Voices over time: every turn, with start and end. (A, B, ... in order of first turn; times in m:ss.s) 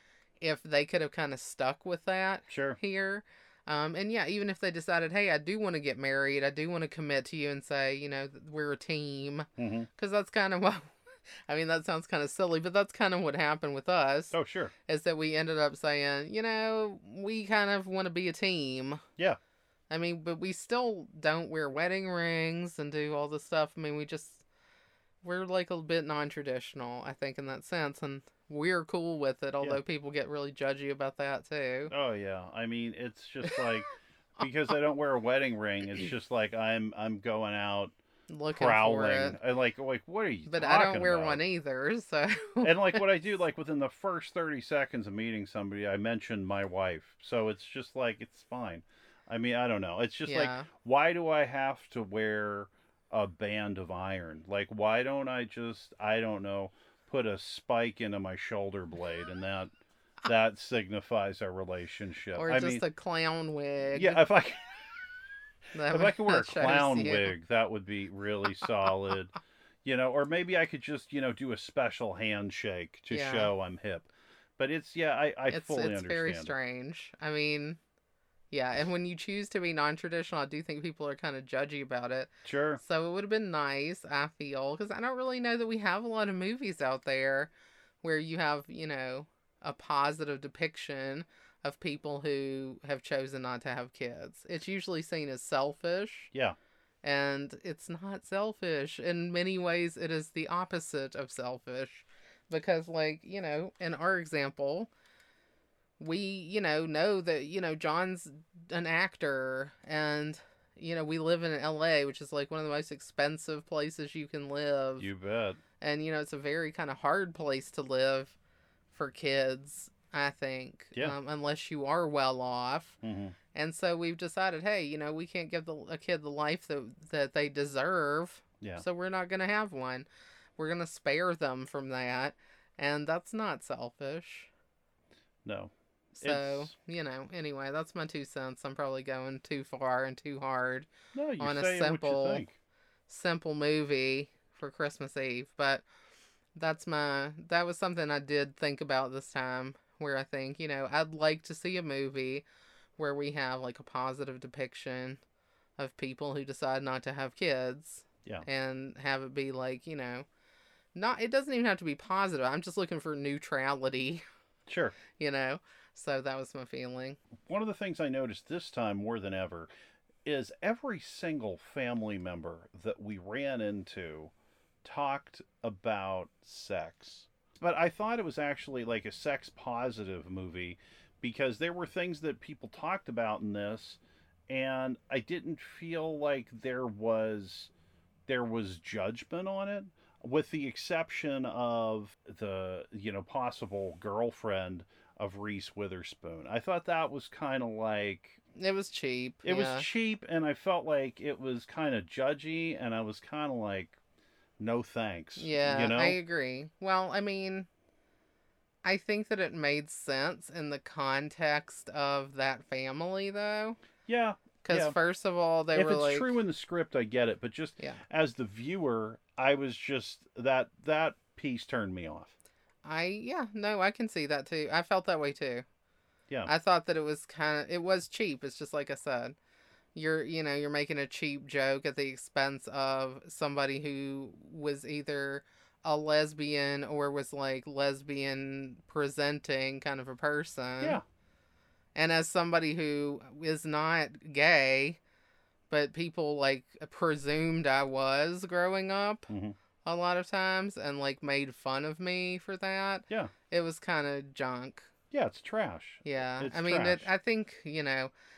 0:00.4-0:10.9 A
0:02.5-0:02.8 B
0:09.6-0:09.9 B
0:11.5-0:14.3 A
0:14.3-0:14.7 B
0:14.8-0:19.0 A
0:19.9-0:24.4 A
0:25.2-0:31.9 A
0:31.9-0:37.9 B
0:38.3-0:39.4 A
0:38.5-0:41.4 B
0:40.4-0:43.0 A
0:42.6-0:59.7 B
0:50.2-0:50.7 A
1:00.2-1:02.8 B
1:02.3-1:04.2 A
1:03.9-1:04.6 B
1:05.7-1:07.3 A
1:05.9-1:14.1 B
1:13.1-1:13.5 A
1:14.6-1:16.5 B
1:15.5-1:17.8 A
1:18.5-1:27.5 A
1:22.4-1:22.8 B
1:28.0-1:36.3 A
1:37.0-1:44.9 A
1:46.0-1:55.1 A
1:55.0-1:55.6 B
1:55.8-1:58.3 A
1:58.9-2:03.0 A
2:03.0-2:03.4 B
2:03.5-2:14.5 A
2:15.4-2:16.7 B
2:16.2-2:20.9 A
2:21.1-2:22.5 B
2:21.4-2:22.4 A
2:23.1-2:25.8 A
2:26.5-2:32.4 A
2:33.0-2:35.2 A
2:35.8-2:40.2 A
2:40.9-2:44.2 A
2:44.7-2:45.0 B
2:45.1-2:47.2 A
2:47.4-2:49.7 B
2:50.2-2:54.3 B
2:54.8-3:07.7 B
3:08.3-3:18.4 B
3:18.5-3:19.9 A
3:19.4-3:24.0 B
3:24.6-3:26.2 B
3:25.4-3:27.7 A
3:28.8-3:33.8 A
3:34.0-3:35.0 B
3:34.6-3:36.3 A
3:35.7-3:42.3 B
3:42.8-3:45.6 A
3:46.4-3:49.4 A
3:49.9-4:01.0 A
4:01.9-4:05.0 A
4:05.7-4:09.3 A
4:09.3-4:09.6 B
4:09.8-4:14.9 A
4:15.1-4:17.1 B
4:16.0-4:18.1 A